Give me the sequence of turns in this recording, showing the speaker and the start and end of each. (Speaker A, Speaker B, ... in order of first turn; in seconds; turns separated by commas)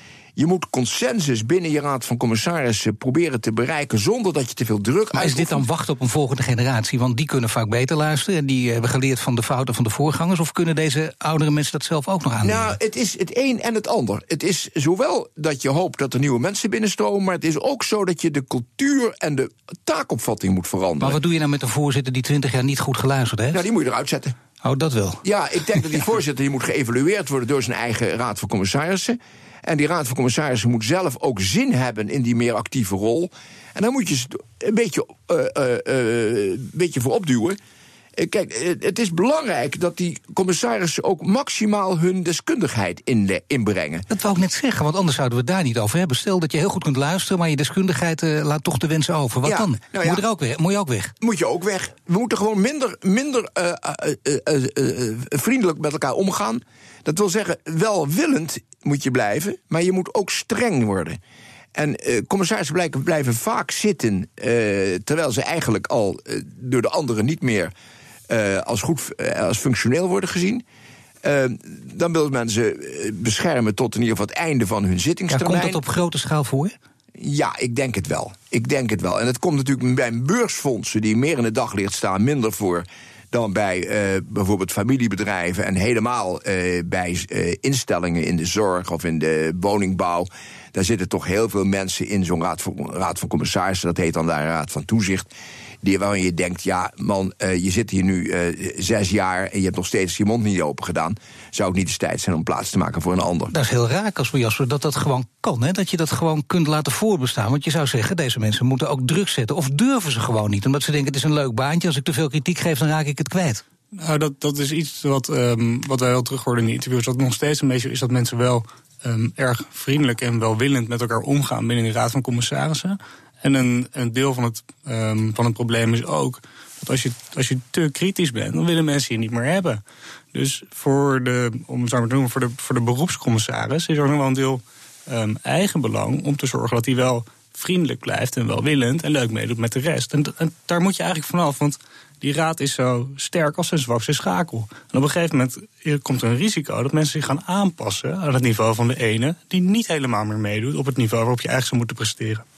Speaker A: 0.3-5.6, Speaker B: 5.1-12.7, Speaker A: 12.4-21.2, Speaker B: 21.0-23.6, Speaker A: 23.5-24.3, Speaker B: 24.6-25.2, Speaker A: 25.2-37.6, Speaker A: 38.1-44.1, Speaker B: 44.1-51.1, Speaker A: 49.4-50.2, Speaker A: 51.2-61.2, Speaker A: 61.7-67.7, Speaker A: 68.3-70.6, Speaker A: 71.2-75.8, Speaker B: 75.3-76.8, Speaker A: 77.2-95.3, Speaker A: 95.8-103.5, Speaker B: 103.5-113.6, Speaker C: 113.9-129.8, Speaker C: 130.3-152.4